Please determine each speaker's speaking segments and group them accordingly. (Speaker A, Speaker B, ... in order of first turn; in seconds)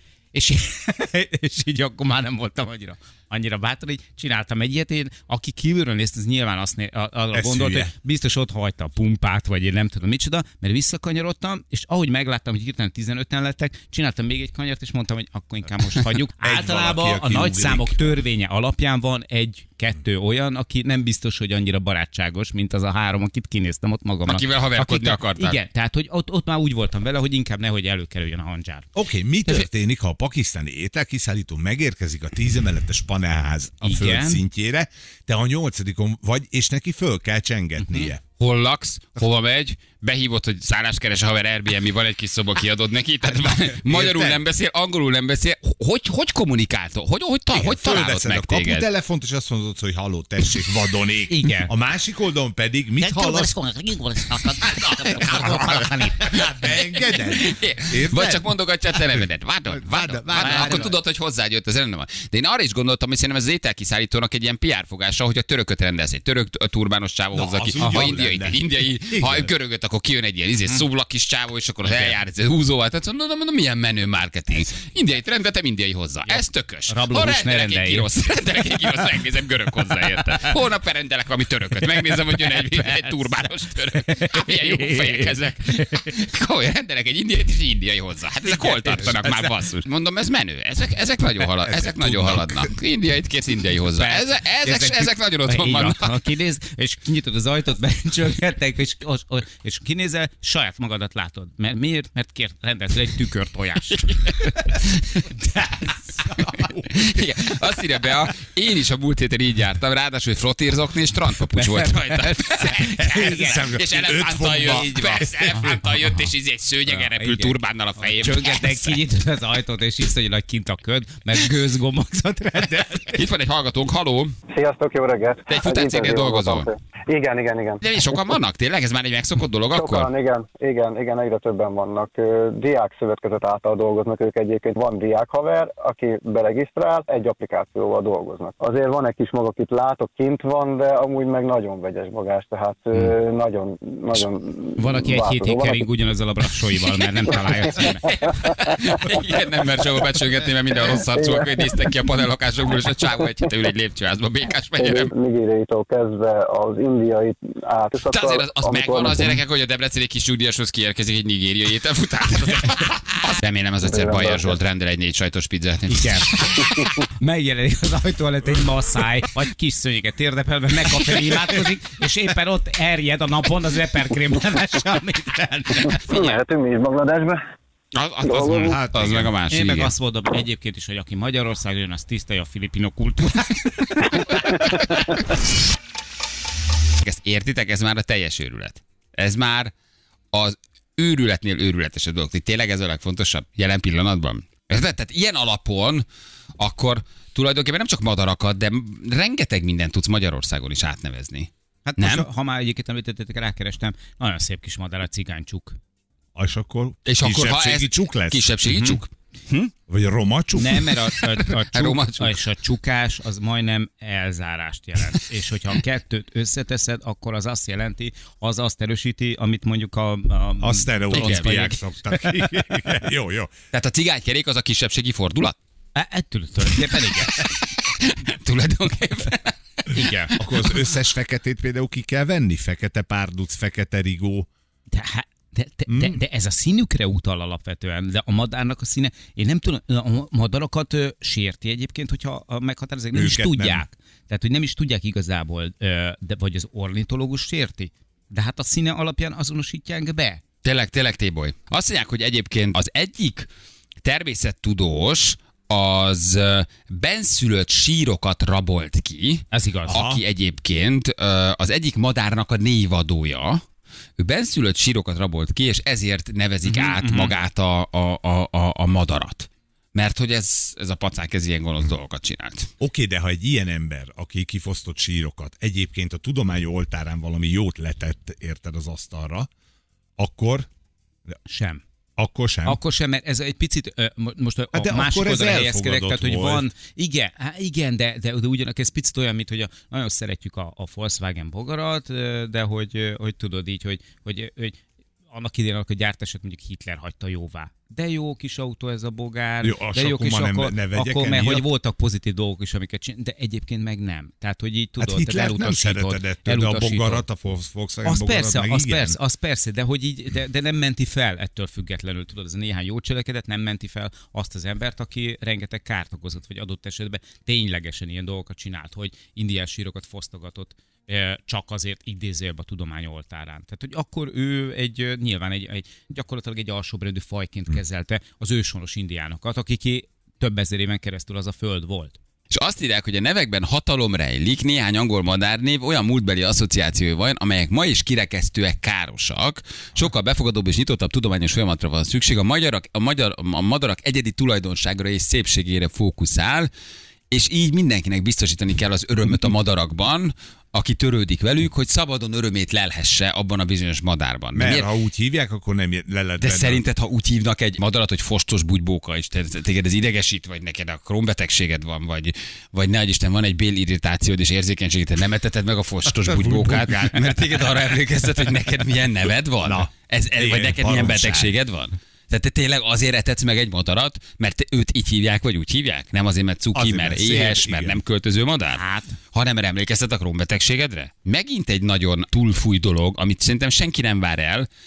Speaker A: 0.3-28.9, 33.8-34.4, 37.8-38.1, 51.3-51.7, 53.0-56.3, 60.4-60.9, 67.8-68.1, 76.9-78.1, 84.0-85.3, 93.9-104.7, 105.4-106.8, 111.5-113.7, 114.7-116.3, 116.9-123.2, 144.8-148.0, 165.9-166.5, 167.2-176.0, 179.5-184.8, 201.8-205.8, 208.7-209.0, 210.6-221.8, 225.9-227.5, 229.9-230.3, 234.9-250.4, 259.5-260.0, 266.6-267.3, 281.5-281.8, 282.6-294.8, 295.3-307.2, 308.0-332.2, 378.7-379.2
Speaker B: 7.3-7.9, 16.4-18.2, 28.9-38.2, 43.3-44.4, 47.5-53.6, 54.5-61.0, 67.3-69.5, 89.0-89.3, 91.6-92.7, 113.0-115.6, 178.4-179.3, 206.3-208.5, 209.9-210.9, 220.6-223.5, 230.4-234.5, 235.9-236.2, 243.1-243.9, 259.9-260.2, 272.8-279.5, 280.2-280.7, 282.2-282.8, 284.7-286.7, 299.6-301.7, 305.0-309.2, 354.5-356.8, 366.1-367.7, 369.6-371.5, 376.8-378.0
Speaker C: 24.3-25.6, 38.4-48.9, 56.4-96.2, 103.9-105.2, 106.2-119.0, 123.1-124.3, 125.5-126.7, 127.8-130.1, 147.3-155.1, 158.1-166.9, 176.1-176.4, 177.9-179.9, 187.0-189.7, 190.3-196.1, 196.6-202.3, 207.1-209.7, 211.4-212.4, 221.1-221.8, 223.7-225.6, 227.8-230.6, 250.6-253.5, 254.0-263.6, 264.2-272.7, 332.5-346.7, 347.3-354.9, 356.4-378.8, 379.3-384.7
Speaker D: 124.5-127.8, 129.7-145.8, 151.2-151.5, 154.8-159.3, 163.9-164.4, 175.9-177.4, 178.3-178.7